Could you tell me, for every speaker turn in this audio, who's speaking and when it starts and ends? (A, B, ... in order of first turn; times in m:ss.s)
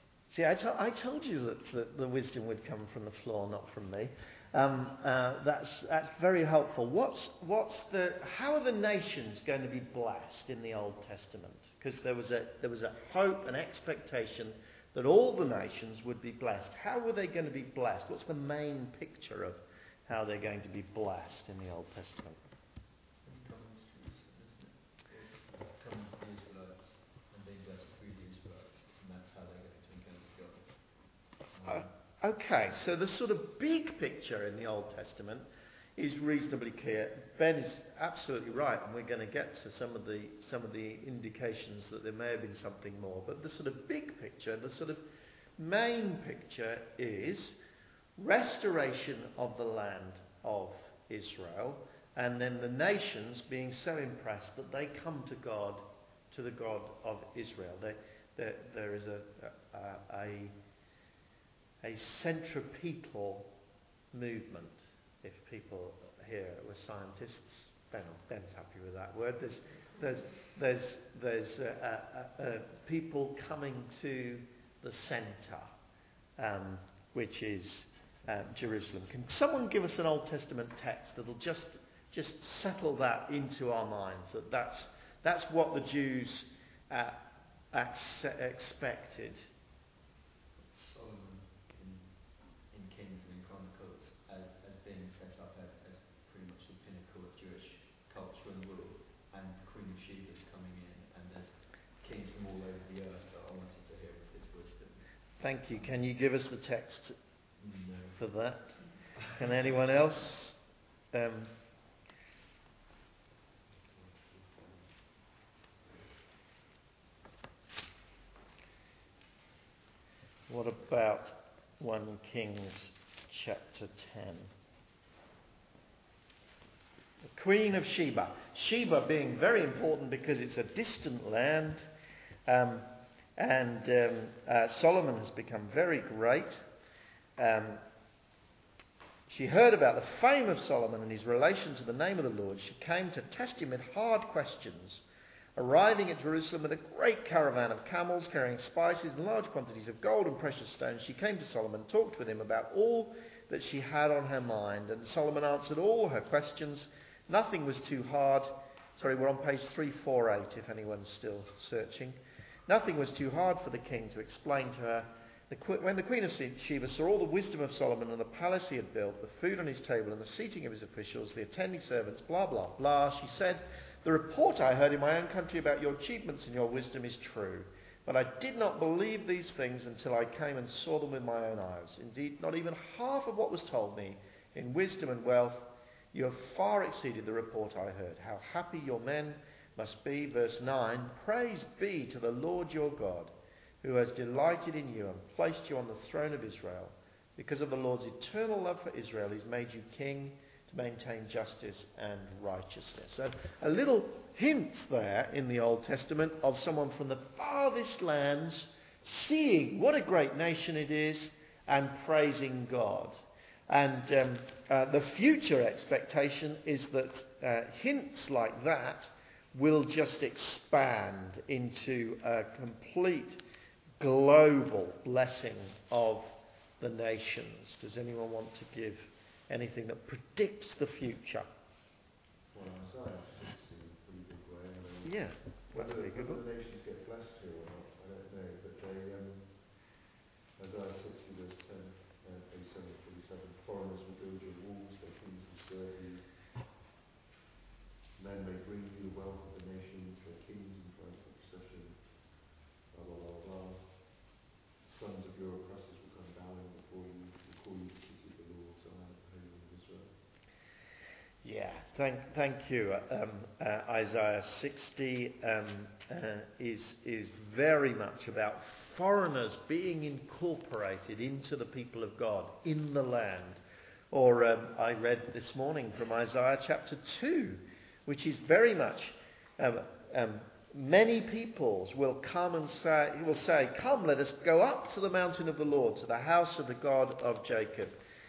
0:00.3-0:22.4 A
0:23.1-0:31.9 B
0:31.7-0:47.6 A
0:48.2-1:00.5 A
1:01.8-1:03.5 A
1:04.1-1:15.7 A
1:16.4-1:29.5 A
1:30.7-1:45.0 B
1:45.4-1:47.2 A
1:47.6-1:48.2 B
1:48.2-1:50.6 A
1:51.1-1:51.5 A
1:53.7-1:55.2 C
1:55.8-1:56.1 C
2:00.5-2:04.5 A
2:07.3-2:11.8 A
2:12.5-2:16.6 A
2:17.4-2:17.8 A
2:19.3-2:25.0 A
2:25.6-3:33.2 A
3:33.7-3:43.4 A
3:44.0-3:51.5 A
3:52.5-3:59.8 C
3:55.0-3:56.4 A
4:00.6-4:06.3 C
4:08.2-4:14.2 C
4:14.8-4:20.2 C
4:21.4-4:33.6 A
4:34.1-4:48.0 A